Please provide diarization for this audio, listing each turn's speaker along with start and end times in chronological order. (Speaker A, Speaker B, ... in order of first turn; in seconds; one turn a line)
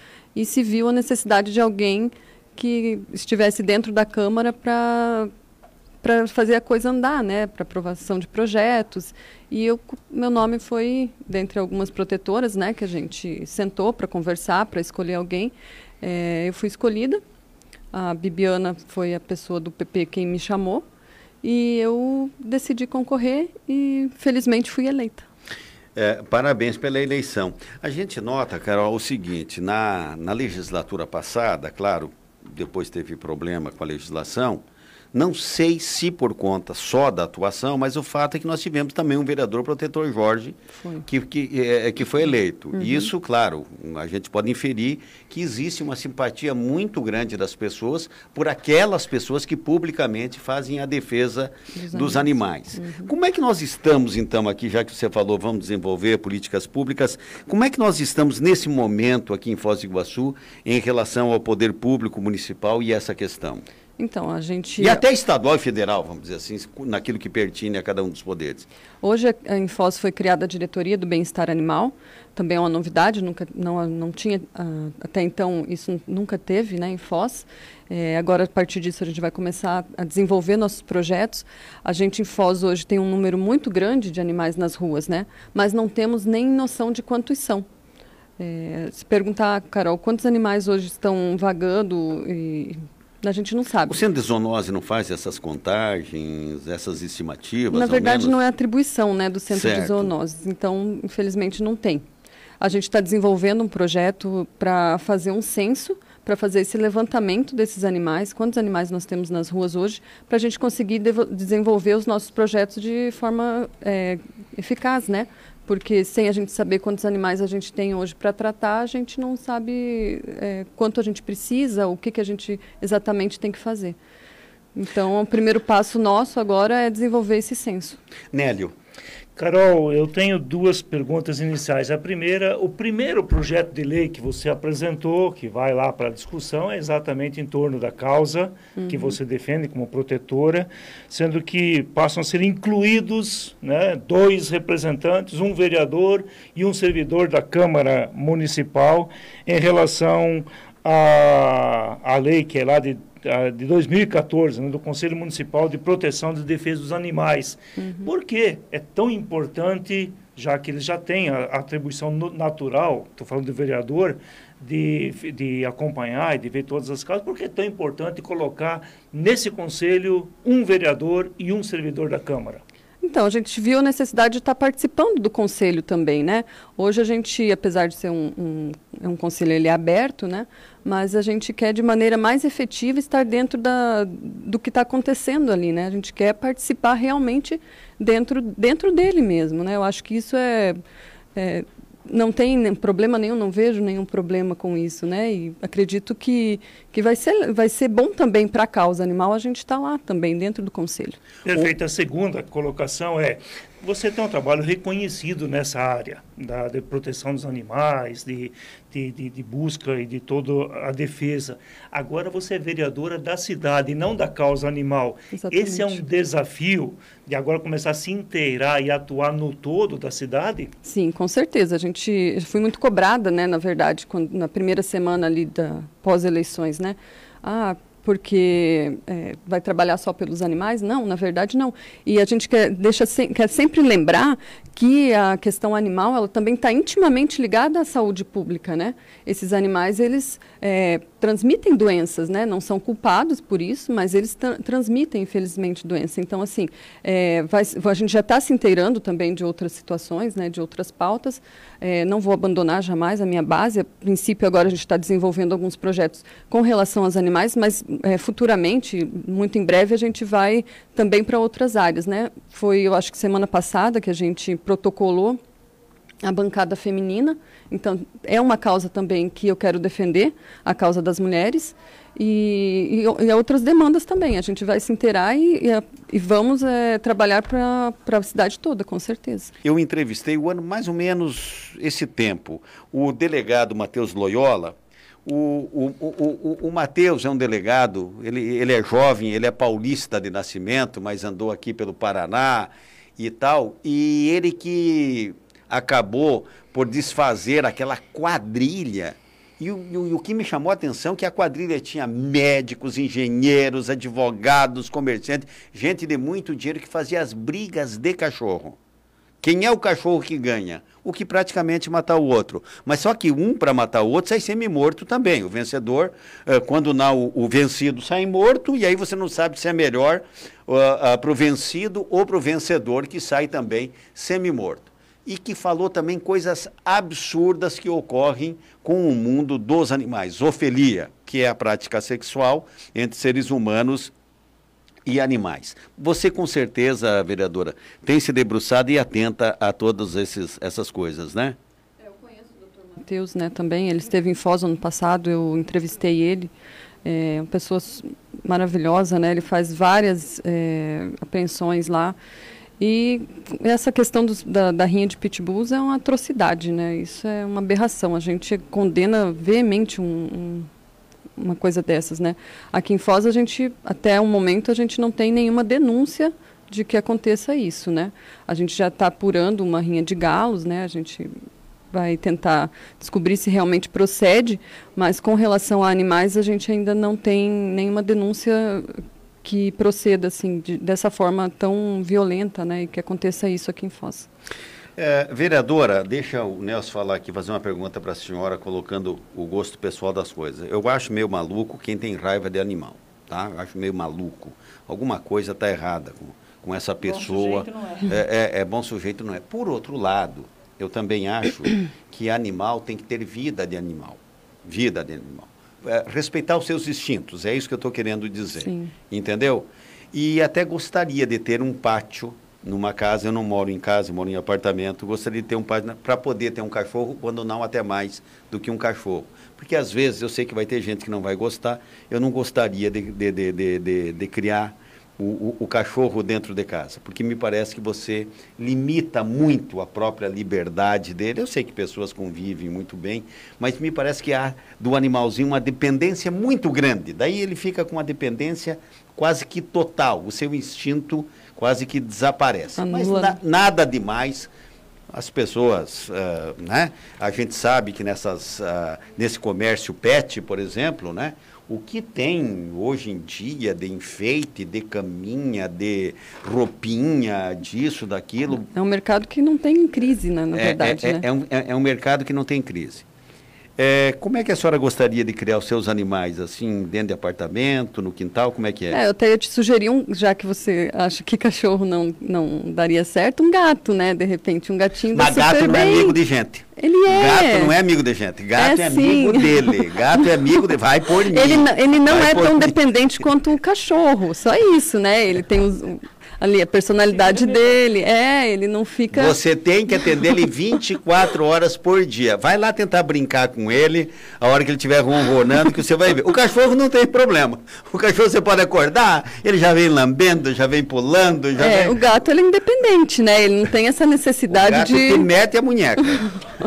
Speaker A: 0.3-5.3
Speaker A: 6.0-17.2
Speaker A: 17.9-20.8
Speaker A: 21.4-25.3
Speaker B: 25.9-34.6
Speaker B: 35.1-63.6
Speaker A: 40.8-41.0
Speaker A: 42.7-43.1
Speaker A: 51.7-53.1
Speaker A: 64.0-65.0
Speaker B: 64.8-68.7
Speaker A: 69.0-87.6
Speaker A: 88.4-94.0
Speaker B: 93.9-98.4
Speaker A: 97.7-102.0
Speaker B: 99.5-100.1
Speaker A: 102.6-124.0
Speaker A: 124.7-128.0
Speaker B: 128.3-128.7
Speaker C: 129.3-172.6
Speaker A: 138.8-139.1
Speaker A: 157.8-158.1
Speaker A: 173.0-190.8
Speaker A: 191.3-201.2
Speaker C: 201.4-220.7
Speaker A: 215.3-216.0
Speaker A: 220.8-265.4
Speaker A: 266.2-279.5
Speaker B: 279.6-308.8
Speaker B: 309.4-334.1
Speaker B: 335.0-341.6
Speaker A: 342.0-346.5
Speaker A: 347.0-352.1
Speaker A: 352.8-360.7
Speaker A: 361.4-371.3
Speaker A: 371.9-384.3
Speaker B: 384.9-444.5
Speaker A: 408.6-408.9
Speaker A: 442.8-443.4
Speaker B: 445.1-458.6
Speaker A: 458.7-461.2
Speaker B: 460.5-463.1
Speaker B: 463.8-469.0
Speaker A: 468.9-476.2
Speaker B: 475.1-482.8
Speaker A: 476.8-477.7
Speaker A: 478.6-479.8
Speaker A: 481.3-489.4
Speaker B: 489.1-502.0
Speaker A: 501.6-505.2
Speaker B: 504.5-506.3